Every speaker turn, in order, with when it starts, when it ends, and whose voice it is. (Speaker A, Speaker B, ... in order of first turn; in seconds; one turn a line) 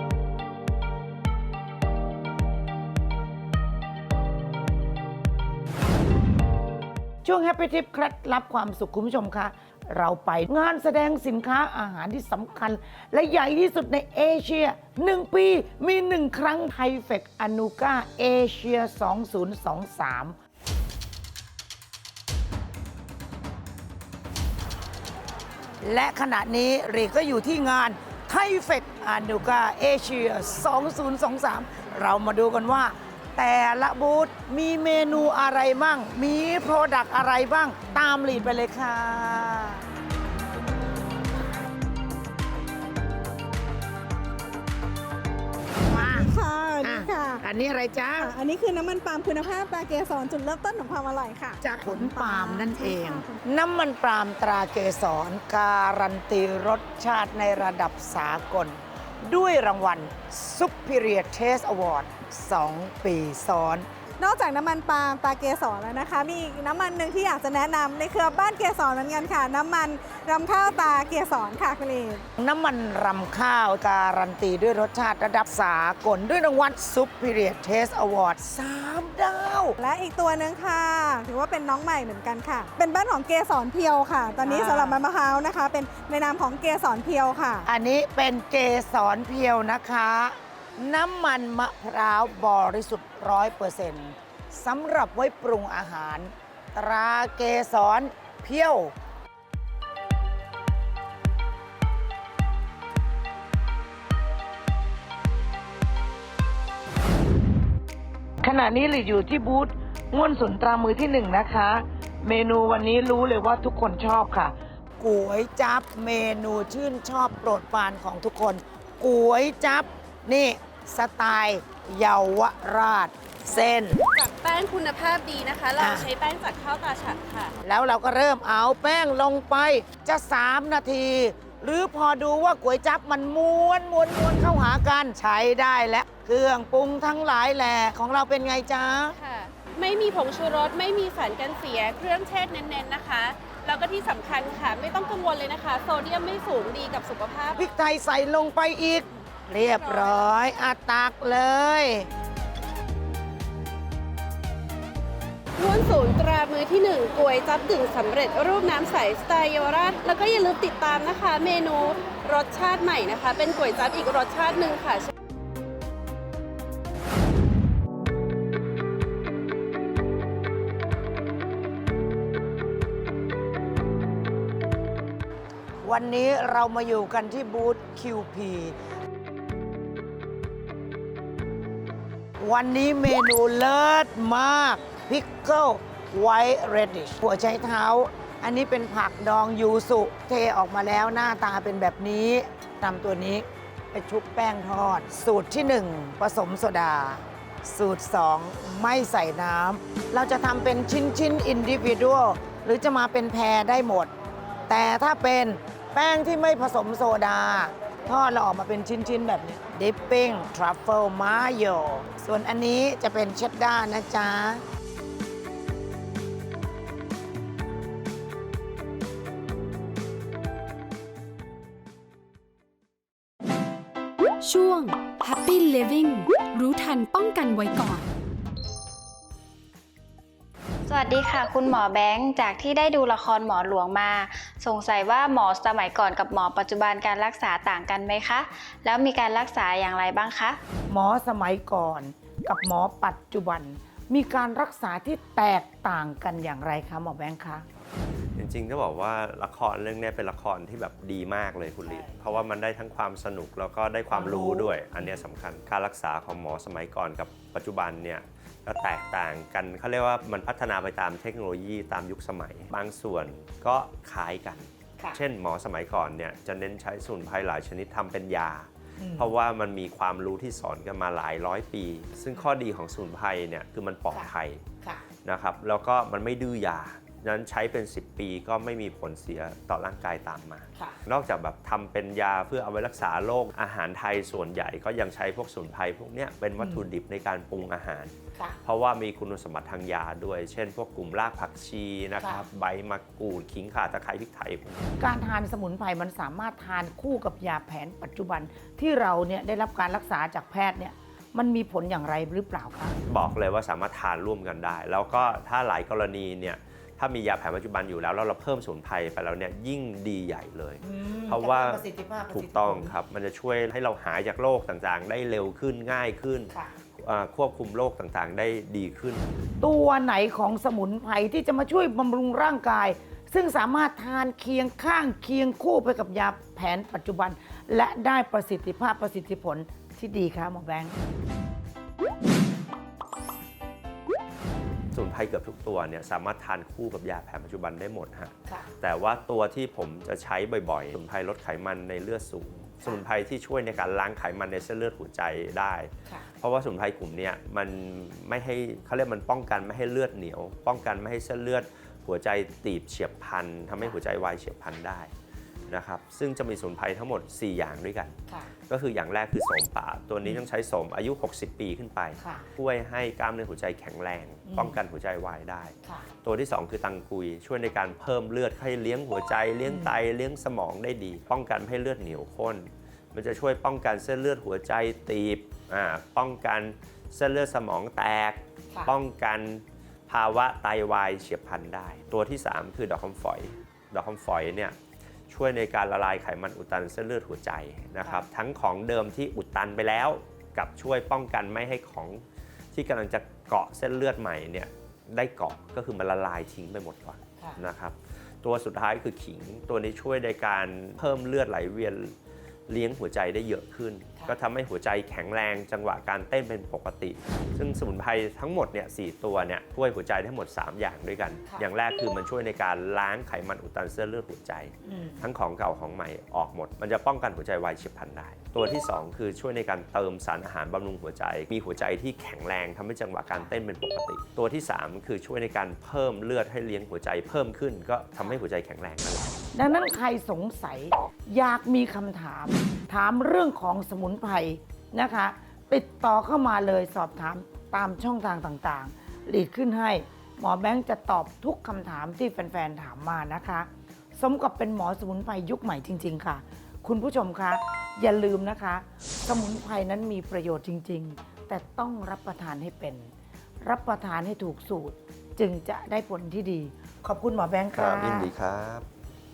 Speaker A: 7.2-20.3
Speaker A: 25.8-39.8
Speaker A: 45.9-48.4
Speaker B: 46.4-47.3
Speaker B: 48.5-53.1
Speaker A: 51.6-63.8
Speaker B: 64.2-72.2
Speaker A: 72.4-79.8
Speaker B: 79.8-87.6
Speaker A: 84.4-85.0
Speaker A: 87.6-98.9
Speaker A: 108.4-124.0
Speaker C: 123.5-127.5
Speaker A: 125.8-126.1
Speaker A: 127.6-139.1
Speaker C: 139.2-147.7
Speaker A: 147.6-152.1
Speaker C: 149.6-150.3
Speaker C: 155.6-165.1
Speaker A: 175.8-178.7
Speaker A: 182.4-204.1
Speaker A: 204.7-214.6
Speaker D: 224.4-228.1
Speaker E: 230.9-240.6
Speaker A: 240.9-247.6
Speaker F: 248.3-274.6
Speaker A: 251.8-252.4
Speaker A: 254.1-255.2
Speaker A: 269.0-269.3
Speaker F: 275.2-288.1
Speaker A: 286.6-286.8
Speaker F: 288.6-294.9
Speaker A: 295.0-303.0
Speaker F: 303.1-319.3
Speaker A: 310.8-312.9
Speaker A: 319.6-330.9
Speaker F: 334.9-355.1
Speaker F: 355.7-358.1
Speaker F: 358.7-384.8
Speaker A: 362.2-362.5
Speaker A: 364.5-364.8
Speaker A: 369.7-370.0
Speaker F: 385.3-402.1
Speaker F: 402.7-429.3
Speaker A: 414.9-415.2
Speaker A: 429.5-453.1
Speaker A: 453.6-458.3
Speaker F: 457.7-458.9